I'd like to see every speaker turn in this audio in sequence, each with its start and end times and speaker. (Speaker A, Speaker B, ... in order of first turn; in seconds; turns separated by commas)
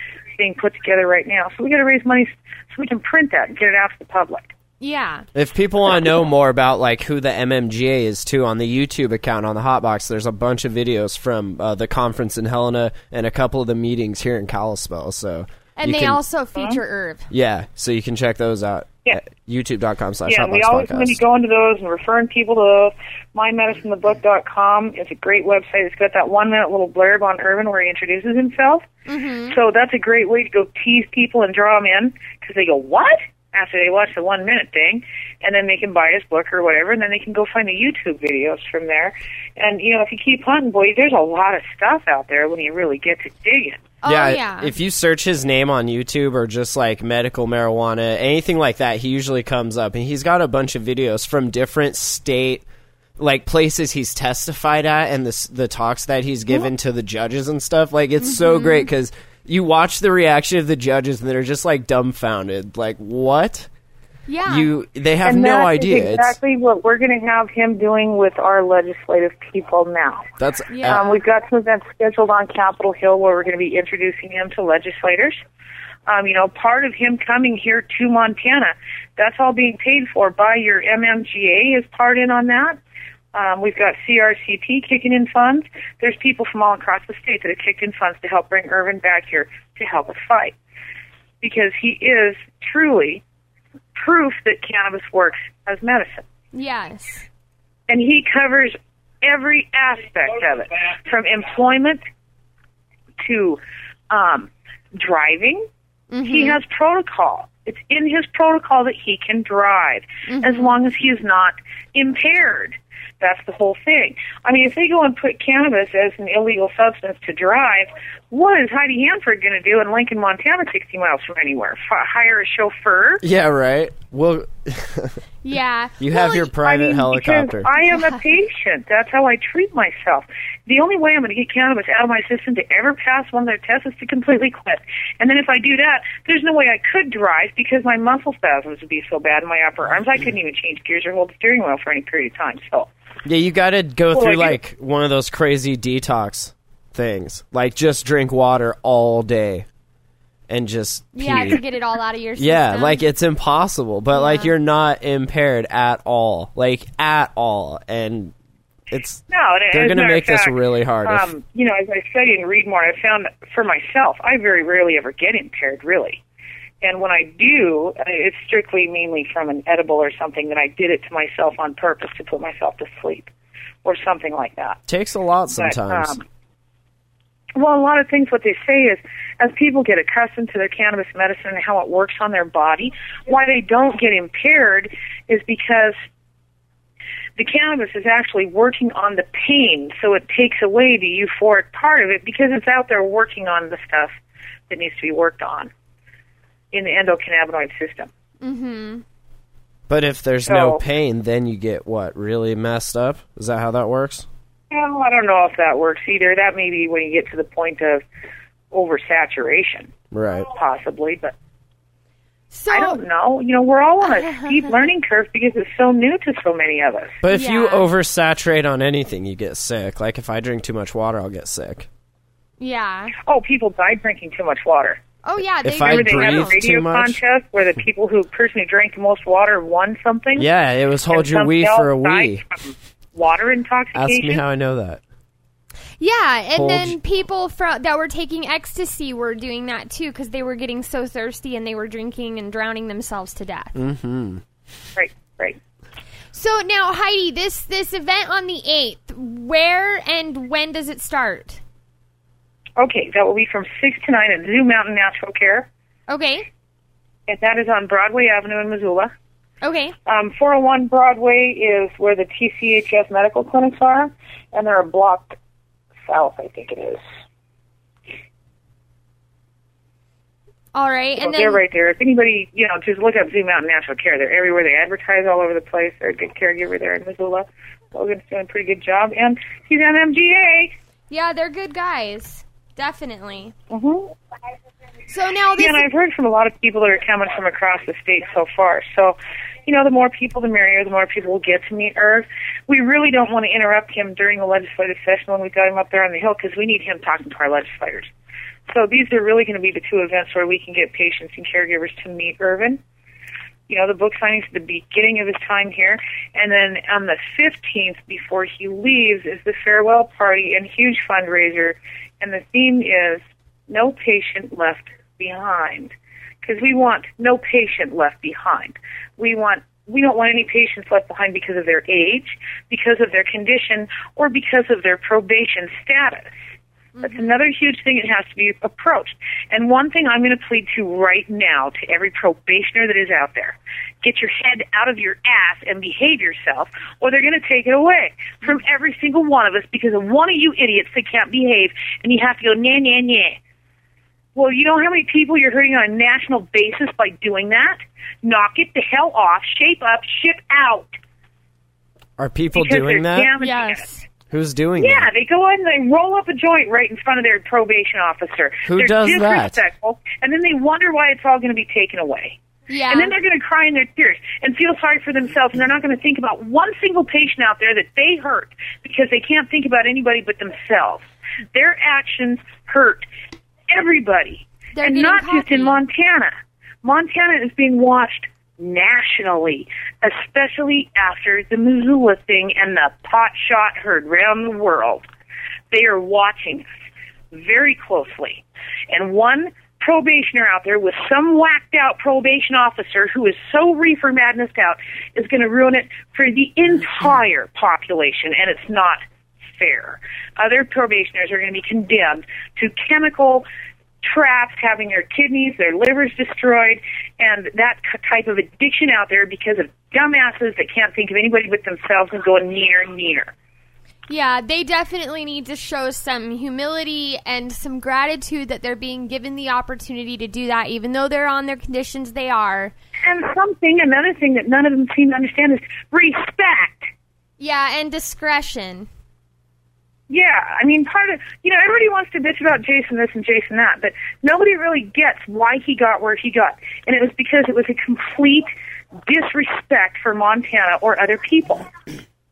Speaker A: 0.4-4.5, Speaker B: 4.8-5.2, Speaker C: 5.3-16.2, Speaker B: 15.8-17.3, Speaker C: 17.3-21.2, Speaker A: 20.3-28.9, Speaker B: 29.1-29.6, Speaker A: 29.5-43.9, Speaker B: 44.0-44.7, Speaker C: 44.0-52.6, Speaker C: 53.2-63.7, Speaker B: 58.2-58.9, Speaker B: 64.3-64.7, Speaker C: 64.5-66.4, Speaker A: 65.2-70.3, Speaker C: 70.4-71.0, Speaker B: 70.7-71.0, Speaker A: 70.9-75.4, Speaker A: 76.1-82.8, Speaker A: 83.3-90.5, Speaker A: 91.4-93.2, Speaker A: 94.0-96.3, Speaker B: 96.5-97.3, Speaker A: 97.9-102.0, Speaker A: 103.2-105.7, Speaker B: 106.1-106.6, Speaker A: 106.2-123.2, Speaker B: 110.3-110.7, Speaker C: 123.2-125.2, Speaker B: 125.4-126.5, Speaker C: 126.0-127.7, Speaker A: 126.6-142.9, Speaker C: 143.2-149.7, Speaker A: 144.1-144.6, Speaker C: 150.5-151.6, Speaker B: 151.2-153.0, Speaker C: 152.4-158.3, Speaker B: 154.1-154.5, Speaker C: 158.9-161.3, Speaker A: 159.3-166.2, Speaker A: 166.8-173.3, Speaker A: 173.8-174.8, Speaker C: 174.9-176.2, Speaker A: 175.5-176.2, Speaker A: 177.6-186.0, Speaker A: 187.4-194.1, Speaker A: 194.7-195.7, Speaker A: 196.7-198.1, Speaker B: 198.4-199.0, Speaker C: 199.9-204.3, Speaker A: 200.5-200.8, Speaker A: 204.7-208.0, Speaker A: 208.7-209.9, Speaker C: 210.1-210.5, Speaker A: 210.5-211.3, Speaker B: 212.5-213.0, Speaker A: 212.7-217.2, Speaker B: 214.1-214.7, Speaker C: 217.2-221.9, Speaker B: 217.3-217.8, Speaker B: 222.6-223.2, Speaker A: 223.3-225.0, Speaker B: 225.2-226.6, Speaker C: 225.6-227.2, Speaker A: 225.8-230.5, Speaker C: 230.4-232.4, Speaker A: 231.1-234.4, Speaker C: 233.9-235.0, Speaker B: 236.0-243.8, Speaker C: 236.6-237.0, Speaker C: 243.8-244.4, Speaker A: 245.0-245.6, Speaker B: 246.3-251.6, Speaker A: 252.8-255.7, Speaker B: 256.1-256.5, Speaker A: 257.3-259.1, Speaker B: 259.6-259.9, Speaker A: 260.1-265.4, Speaker A: 266.1-267.0, Speaker B: 270.7-271.6, Speaker A: 271.2-280.7, Speaker B: 281.1-283.5, Speaker A: 283.7-284.1, Speaker B: 285.1-285.9, Speaker A: 285.6-298.1, Speaker A: 298.7-302.8, Speaker A: 303.7-326.3, Speaker B: 327.0-327.3, Speaker A: 327.0-343.4, Speaker A: 344.4-351.0, Speaker C: 352.2-353.3, Speaker A: 352.5-353.9, Speaker B: 353.4-354.1, Speaker C: 354.3-355.1, Speaker A: 354.8-362.4, Speaker C: 358.7-359.6, Speaker B: 362.7-363.1, Speaker A: 362.9-373.1, Speaker A: 373.7-385.1, Speaker B: 374.8-375.8, Speaker A: 385.7-386.7, Speaker A: 387.3-399.0, Speaker A: 399.6-403.4, Speaker A: 404.0-413.3, Speaker B: 414.1-422.7, Speaker A: 423.0-426.9, Speaker B: 427.4-428.9, Speaker A: 430.1-438.5, Speaker A: 439.1-441.7